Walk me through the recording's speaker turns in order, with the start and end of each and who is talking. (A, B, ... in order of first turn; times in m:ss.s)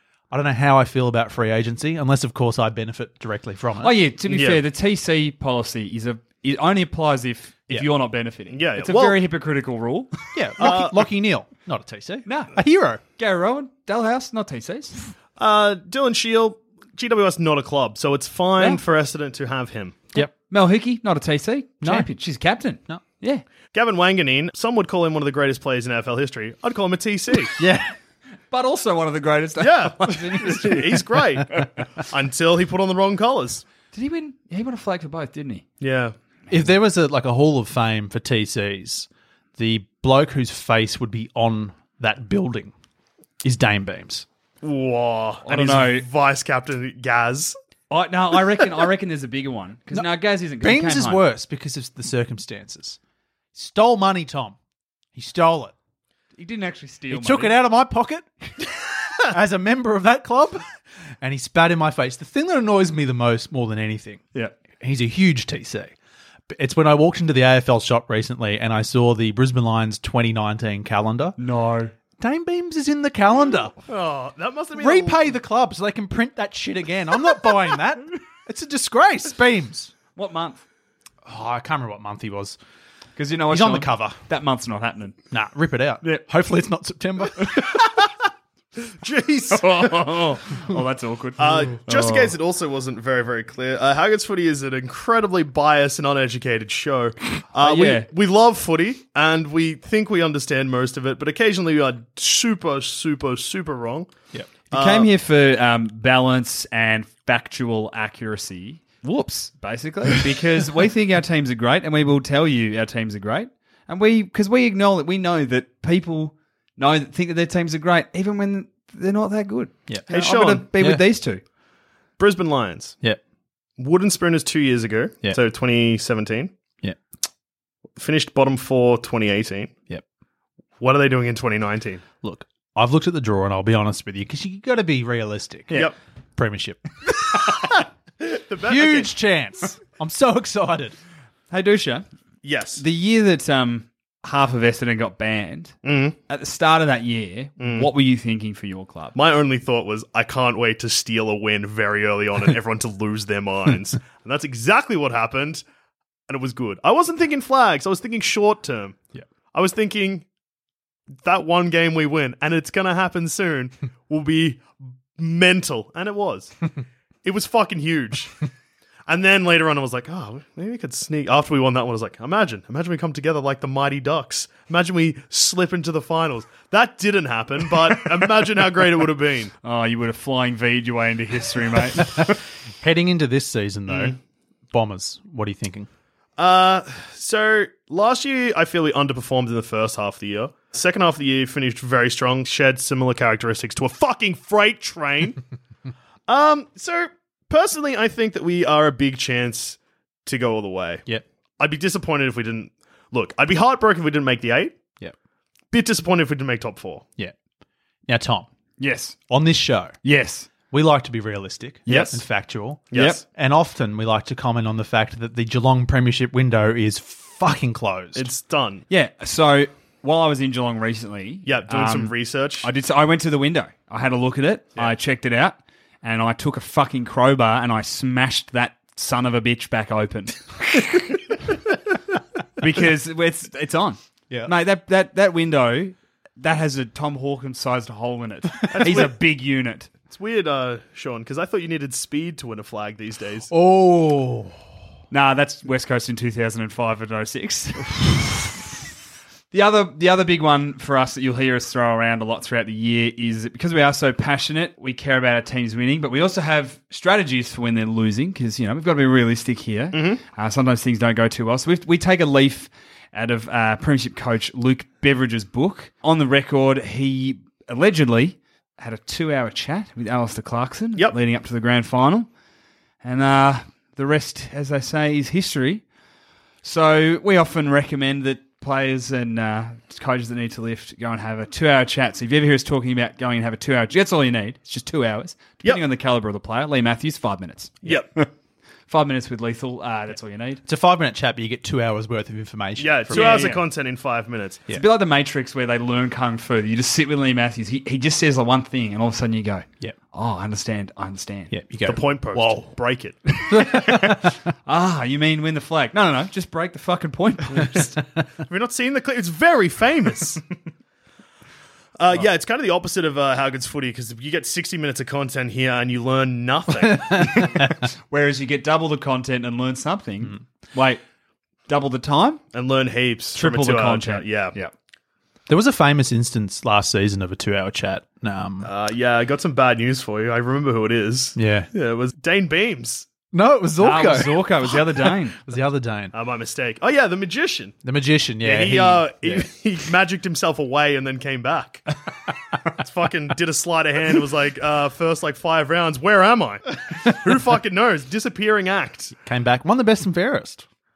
0:00.3-0:04.0 A
0:03.8-0:10.2 B
0:04.3-0:04.6 C
0:08.5-0:09.2 C
0:10.3-0:13.0 A
0:10.6-0:11.0 C
0:12.2-0:12.5 B
0:13.2-0:14.9 B
0:15.4-0:20.0 C
0:20.2-0:23.4 B
0:21.8-0:22.1 A
0:23.7-0:27.5 C
0:27.6-0:27.9 A
0:28.5-0:31.0 B
0:29.6-0:33.6 C
0:33.9-0:35.6 B
0:35.8-0:36.1 C
0:36.5-0:42.7 A
0:43.4-0:44.2 A
0:44.6-0:47.5 C
0:45.4-0:46.0 B
0:47.9-0:51.2 B
0:49.9-0:53.0 A
0:53.5-0:54.6 A
0:55.1-0:55.7 A
0:56.4-0:57.6 B
0:57.1-1:00.6 A
1:01.2-1:04.2 A
1:04.8-1:05.9 A
1:06.5-1:11.4 A
1:11.4-1:11.9 B
1:12.2-1:13.7 A
1:13.8-1:15.3 C
1:14.8-1:19.9 A
1:20.2-1:20.6 B
1:21.2-1:22.6 A
1:23.2-1:25.2 B
1:23.5-1:24.2 A
1:25.3-1:27.8 A
1:29.0-1:30.2 C
1:29.5-1:32.3 B
1:31.4-1:44.1 C
1:37.6-1:38.1 B
1:44.7-1:45.1 C
1:44.7-2:01.4 B
2:00.1-2:00.7 C
2:00.7-2:01.0 A
2:02.2-2:03.0 C
2:03.8-2:06.5 C
2:08.0-2:09.7 C
2:10.8-2:12.0 C
2:12.2-2:15.8 A
2:16.4-2:17.8 A
2:18.2-2:19.1 C
2:18.6-2:20.9 A
2:21.5-2:22.0 B
2:22.4-2:22.8 C
2:22.8-2:25.7 B
2:25.8-2:26.2 C
2:26.3-2:29.1 B
2:27.6-2:27.9 C
2:29.1-2:35.6 C
2:36.3-2:39.0 C
2:39.5-2:40.2 C
2:41.2-2:44.6 C
2:45.2-2:46.6 C
2:47.2-2:48.4 C
2:49.1-2:59.5 C
2:59.6-3:02.4 B
3:02.0-3:04.2 A
3:03.9-3:04.2 C
3:04.7-3:05.9 A
3:06.4-3:15.4 C
3:16.3-3:21.0 C
3:21.6-3:24.8 C
3:25.7-3:27.0 C
3:28.1-3:28.5 A
3:28.8-3:29.2 B
3:29.3-3:29.9 A
3:30.0-3:30.5 B
3:30.7-3:38.3 A
3:31.9-3:32.2 C
3:32.9-3:33.2 C
3:32.9-3:33.2 B
3:38.1-3:38.8 C
3:38.9-3:51.0 B
3:41.4-3:42.7 C
3:52.6-3:59.9 B
3:58.7-3:59.2 C
4:00.1-4:03.5 C
4:03.5-4:04.6 A
4:05.1-4:08.3 B
4:09.5-4:32.3 B
4:19.9-4:20.2 C
4:33.0-4:35.8 B
4:36.6-4:48.3 B
4:47.8-4:48.1 C
4:48.9-4:50.6 B
4:50.6-4:53.6 A
4:52.8-4:54.6 C
4:53.1-4:53.6 B
4:54.7-5:01.5 B
5:01.5-5:02.7 A
5:01.8-5:03.3 C
5:03.5-5:04.3 A
5:03.5-5:07.9 B
5:07.6-5:07.9 C
5:08.5-5:10.4 C
5:12.0-5:17.2 C
5:16.8-5:17.7 A
5:17.2-5:21.0 B
5:21.7-5:22.4 B
5:22.5-5:24.6 C
5:23.4-5:24.7 B
5:25.5-5:28.7 A
5:28.6-5:33.1 C
5:31.4-5:31.7 A
5:33.3-5:36.1 A
5:33.8-5:35.4 B
5:36.1-5:37.7 C
5:37.8-5:39.5 A
5:38.4-5:41.9 C
5:42.8-5:49.1 C
5:49.2-5:50.6 A